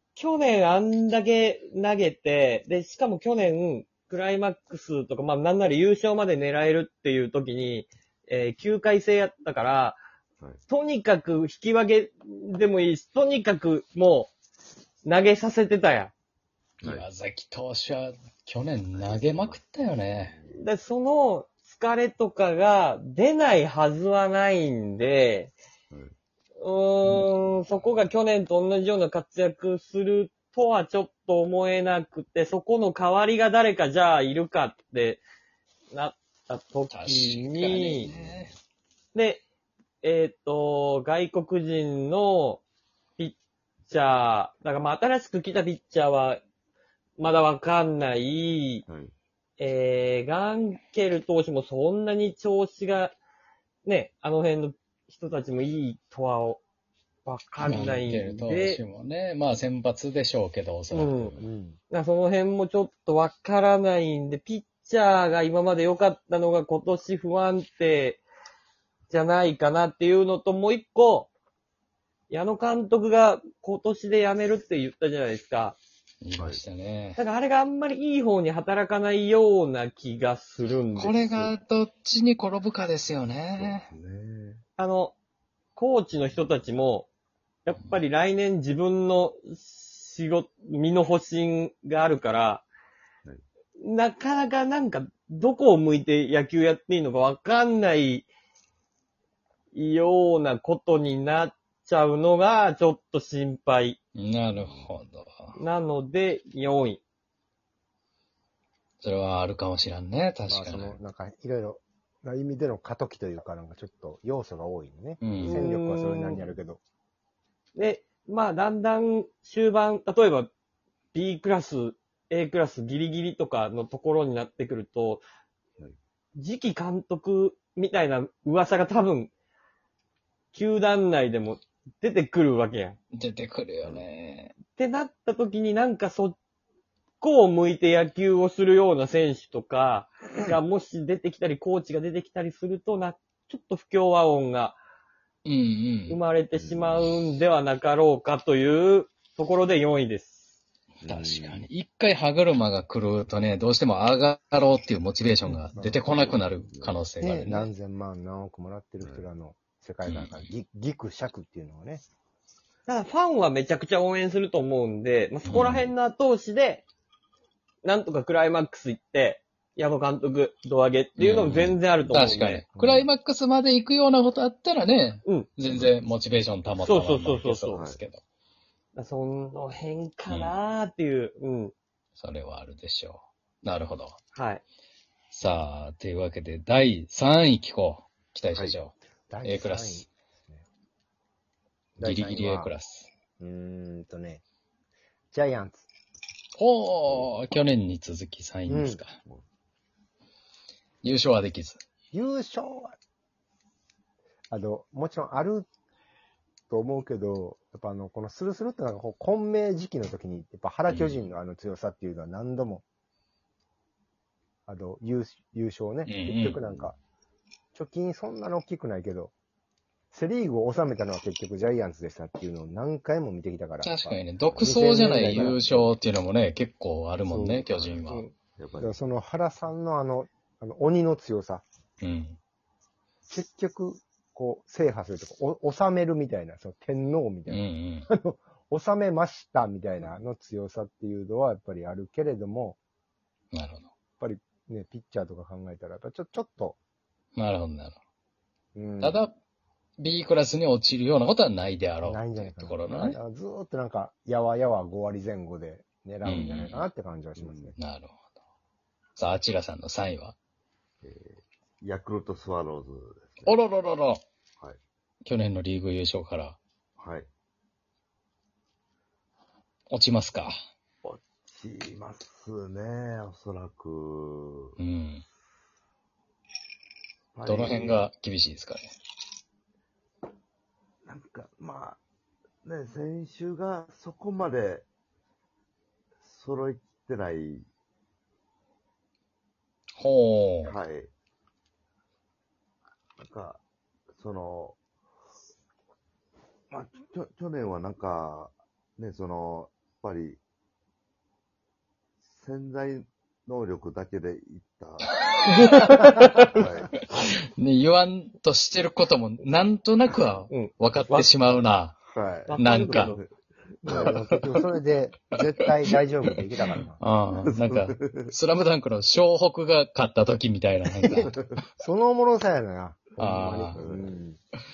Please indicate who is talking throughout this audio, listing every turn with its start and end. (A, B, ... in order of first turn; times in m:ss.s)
0:00.2-0:10.0 A
0:10.7-0:14.3 A
0:15.0-0:16.1 A
0:16.8-0:20.3 B
0:18.9-0:19.6 C
0:20.2-0:20.6 C
0:20.5-0:25.5 A
0:26.6-0:35.2 A
0:27.2-0:27.6 C
0:35.9-0:38.1 A
0:36.9-0:38.5 B
0:38.1-0:38.5 C
0:39.1-0:39.4 A
0:40.0-0:42.6 A
0:43.2-0:46.4 A
0:47.2-0:48.9 A
0:48.9-0:49.1 C
0:49.6-0:53.2 A
0:53.8-0:56.6 A
0:57.2-0:58.8 A
0:57.6-1:01.5 B
1:00.9-1:01.3 A
1:01.4-1:01.8 D
1:01.9-1:08.2 A
1:09.1-1:11.3 A
1:12.3-1:15.8 A
1:16.2-1:17.2 B
1:16.4-1:16.6 C
1:17.2-1:21.5 A
1:21.0-1:23.9 B
1:23.6-1:24.6 C
1:24.8-1:25.1 A
1:25.8-1:27.1 A
1:26.3-1:26.6 C
1:27.6-1:32.6 A
1:33.8-1:38.3 A
1:39.7-1:44.0 A
1:44.2-1:45.6 B
1:44.5-1:44.9 C
1:45.6-1:47.0 A
1:49.0-1:51.0 B
1:50.5-1:56.8 D
1:55.2-1:55.6 B
1:55.4-1:56.4 A
1:57.8-2:00.5 A
2:01.1-2:05.2 A
2:06.4-2:09.3 A
2:10.5-2:13.0 A
2:13.1-2:14.5 B
2:14.7-2:16.4 A
2:17.2-2:24.8 A
2:25.4-2:26.2 B
2:26.1-2:30.4 A
2:26.5-2:27.2 C
2:31.0-2:31.6 C
2:31.1-2:37.7 B
2:35.7-2:36.1 D
2:36.1-2:37.0 C
2:37.2-2:42.0 D
2:40.0-2:40.5 B
2:42.9-2:46.9 A
2:45.5-2:45.8 B
2:45.5-2:45.9 C
2:47.8-2:52.6 A
2:51.2-2:58.2 B
2:52.8-2:53.1 D
2:56.8-2:57.9 A
2:59.0-3:01.7 A
3:00.3-3:00.6 B
3:02.2-3:04.2 B
3:04.3-3:04.6 A
3:05.3-3:10.1 B
3:09.3-3:10.6 D
3:12.0-3:12.7 D
3:12.0-3:13.1 B
3:13.4-3:14.4 D
3:15.3-3:15.9 D
3:16.6-3:19.2 B
3:18.7-3:19.0 D
3:21.0-3:21.8 B
3:22.1-3:23.0 D
3:24.5-3:25.7 D
3:26.7-3:32.8 D
3:30.9-3:31.2 B
3:34.7-3:37.0 D
3:36.0-3:36.6 B
3:37.8-3:39.3 D
3:40.1-3:45.9 D
3:43.8-3:48.2 B
3:47.3-3:47.9 D
3:48.0-3:48.3 A
3:48.6-3:49.0 C
3:48.8-3:51.6 D
3:52.0-3:52.4 B
3:53.3-4:02.8 D
3:57.5-3:58.1 B
4:03.5-4:03.9 B
4:04.2-4:06.8 D
4:07.4-4:08.0 B
4:08.8-4:09.2 D
4:09.0-4:09.3 B
4:10.0-4:13.2 B
4:12.0-4:17.8 D
4:16.2-4:16.9 B
4:17.4-4:17.7 C
4:17.8-4:18.1 B
4:19.2-4:20.4 B
4:21.0-4:23.6 C
4:23.4-4:24.2 B
4:25.2-4:26.6 B
4:27.0-4:27.3 C
4:29.9-4:30.6 B
4:31.0-4:34.7 C
4:34.8-4:35.2 B
4:37.3-4:38.1 C
4:37.5-4:38.9 B
4:41.0-4:42.0 C
4:42.6-4:44.9 C
4:46.2-4:47.7 C
4:50.0-4:50.8 B
4:50.6-4:51.1 C
4:53.2-4:53.6 C
4:54.1-4:54.8 C
4:56.7-5:00.4 C
5:02.2-5:05.1 C
5:05.5-5:06.5 B
5:06.5-5:07.0 C
5:07.6-5:12.0 B
5:10.5-5:11.3 A
5:12.1-5:13.2 C
5:12.5-5:13.2 A
5:12.6-5:13.2 B
5:13.8-5:14.1 C
5:13.9-5:17.0 D
5:16.4-5:21.3 B
5:17.6-5:18.2 C
5:21.0-5:24.4 D
5:23.2-5:23.8 B
5:23.8-5:24.2 C